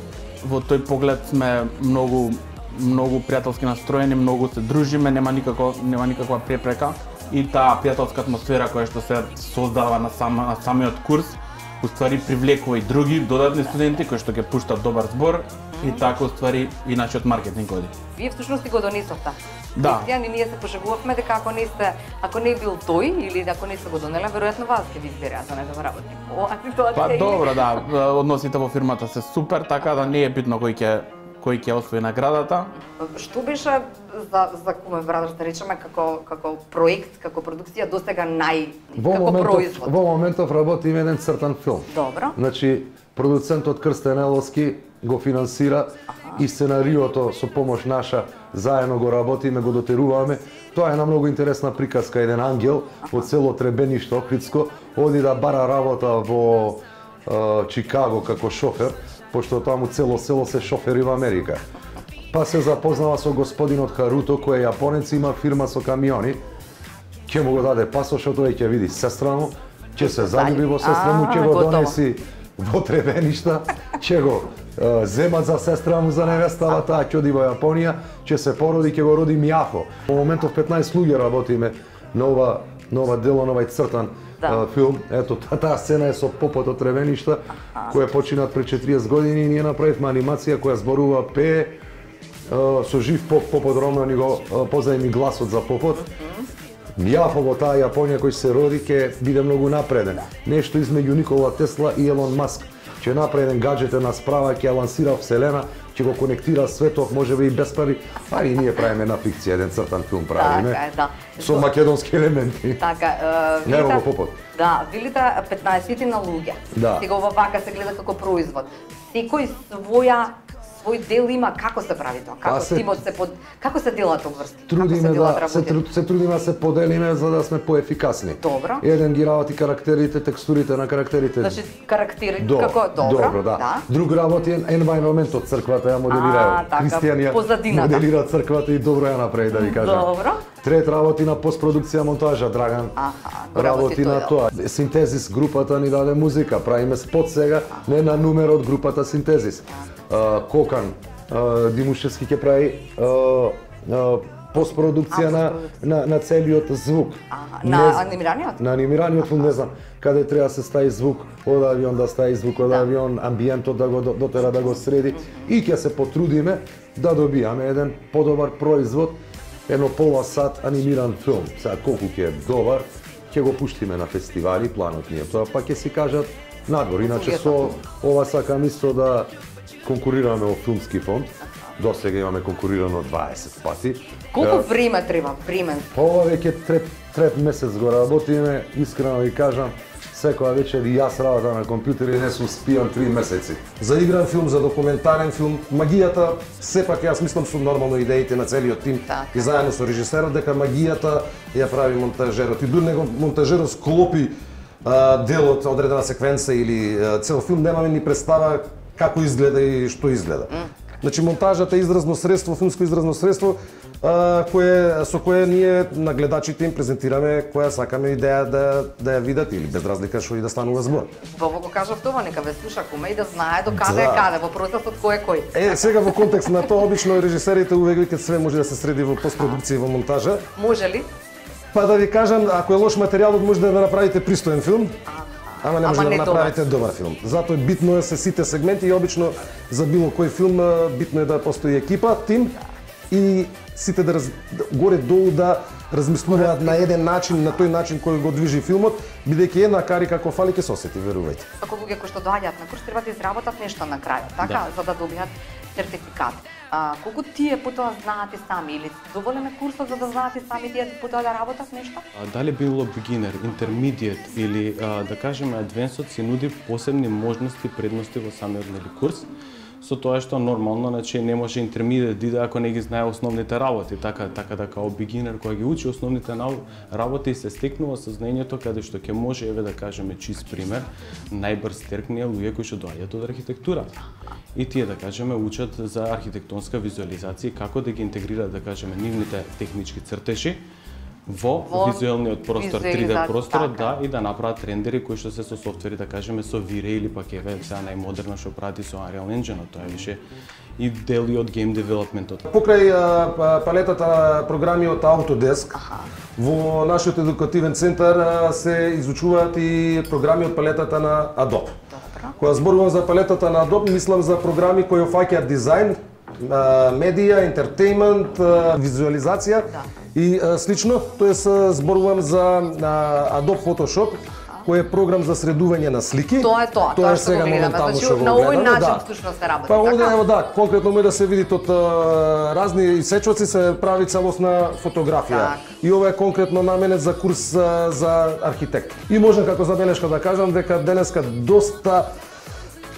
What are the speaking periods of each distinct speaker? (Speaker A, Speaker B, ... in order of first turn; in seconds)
Speaker A: 0.4-17.9, 19.8-20.1, 26.9-32.7
Speaker B: 15.8-16.1, 18.2-27.8, 32.9-39.9, 41.9-42.4, 46.1-46.4, 70.0-72.0, 96.0-96.5, 110.3-111.7, 112.8-114.0, 114.5-125.8, 128.4-128.9, 131.4-133.8, 136.1-138.1, 139.5-140.4, 143.0-144.3, 155.1-155.7, 157.3-158.7, 159.2-159.5, 165.2-165.5, 177.0-177.8, 184.3-185.9, 199.1-199.7, 210.5-210.8, 221.3-226.2, 230.6-231.1, 235.1-236.6, 246.3-246.8, 251.6-262.0, 291.7-293.9, 305.7-306.1, 311.9-312.4, 326.4-330.2, 335.3-335.8
Speaker C: 39.0-61.6, 62.3-66.4, 67.3-91.8, 92.5-96.1, 97.0-110.8, 111.4-112.8, 113.6-114.4, 116.7-117.1, 122.4-123.0, 124.7-131.6, 132.4-140.1, 140.6-143.0, 143.5-158.1, 158.6-179.3, 179.8-184.7, 185.9-193.6
Speaker D: 193.8-221.1, 223.8-224.3, 225.5-230.4, 231.7-235.0, 235.6-242.5, 243.1-251.5, 302.5-305.8, 306.4-311.8, 312.4-329.1, 329.7-342.1
Speaker E: 262.1-269.3, 269.8-283.9, 284.6-290.6, 291.3-300.2, 300.8-302.5